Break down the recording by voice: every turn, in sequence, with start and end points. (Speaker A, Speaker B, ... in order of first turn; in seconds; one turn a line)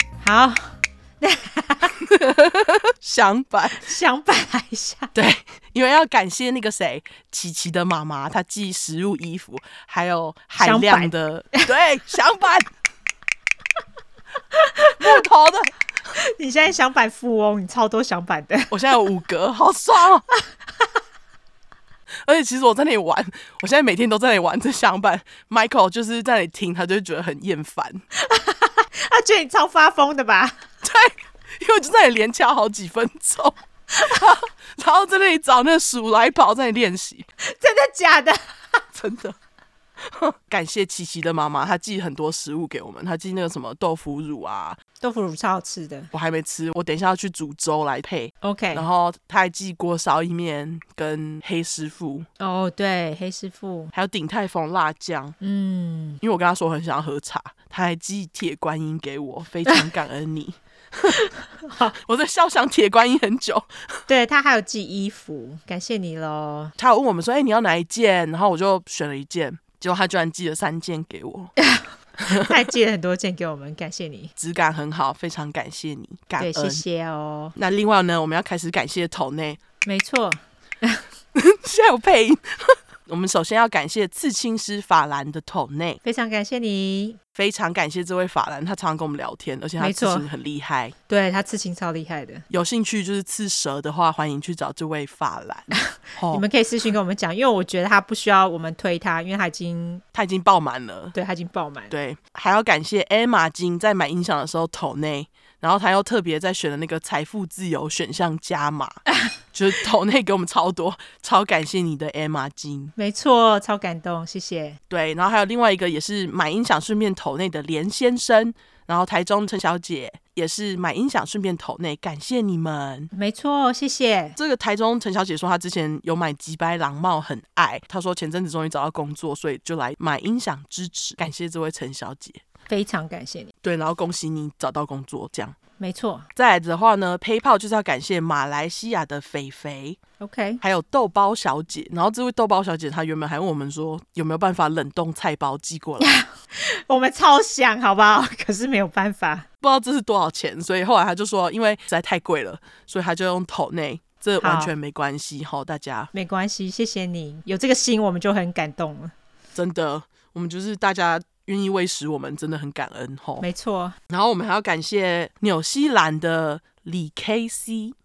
Speaker A: 0.2-1.9
Speaker B: 2.0-3.9
Speaker A: 3.7-5.1
Speaker B: 5.1-12.7
Speaker A: 10.6-11.1
Speaker A: 14.5-15.2
Speaker B: 15.0-15.7
Speaker A: 16.1-19.0
Speaker B: 18.7-20.2
Speaker B: 22.2-28.0
Speaker A: 28.1-30.6
Speaker B: 30.8-37.3
Speaker A: 37.4-38.8
Speaker B: 38.9-39.4
Speaker B: 40.1-44.8
Speaker A: 45.0-46.1
Speaker B: 46.1-52.3
Speaker A: 48.4-48.9
Speaker A: 52.4-53.9
Speaker B: 53.9-55.4
Speaker A: 55.4-56.2
Speaker B: 56.2-61.2
Speaker A: 61.1-61.9
Speaker B: 62.0-63.7
Speaker A: 64.1-66.7
Speaker B: 66.8-71.5
Speaker A: 71.6-74.3
Speaker B: 72.2-72.5
Speaker B: 74.4-76.8
Speaker A: 76.4-77.5
Speaker B: 77.5-79.6
Speaker A: 79.8-81.0
Speaker B: 81.3-86.0
Speaker A: 86.0-87.2
Speaker B: 87.3-90.9
Speaker A: 89.8-90.3
Speaker A: 91.1-92.4
Speaker B: 92.5-96.4
Speaker A: 96.3-100.0
Speaker B: 100.1-101.1
Speaker A: 101.1-101.9
Speaker B: 101.9-109.0
Speaker B: 109.5-112.9
Speaker A: 113.0-114.8
Speaker B: 114.9-123.1
Speaker A: 123.1-124.4
Speaker B: 124.4-132.4
Speaker A: 132.7-133.5
Speaker B: 133.6-135.6
Speaker A: 135.8-136.3
Speaker B: 136.3-140.0
Speaker A: 140.2-140.6
Speaker B: 140.6-146.1
Speaker A: 146.0-149.4
Speaker B: 149.6-156.1
Speaker A: 154.4-154.7
Speaker A: 156.1-159.1
Speaker B: 159.5-163.4
Speaker A: 163.4-163.9
Speaker B: 164.1-167.9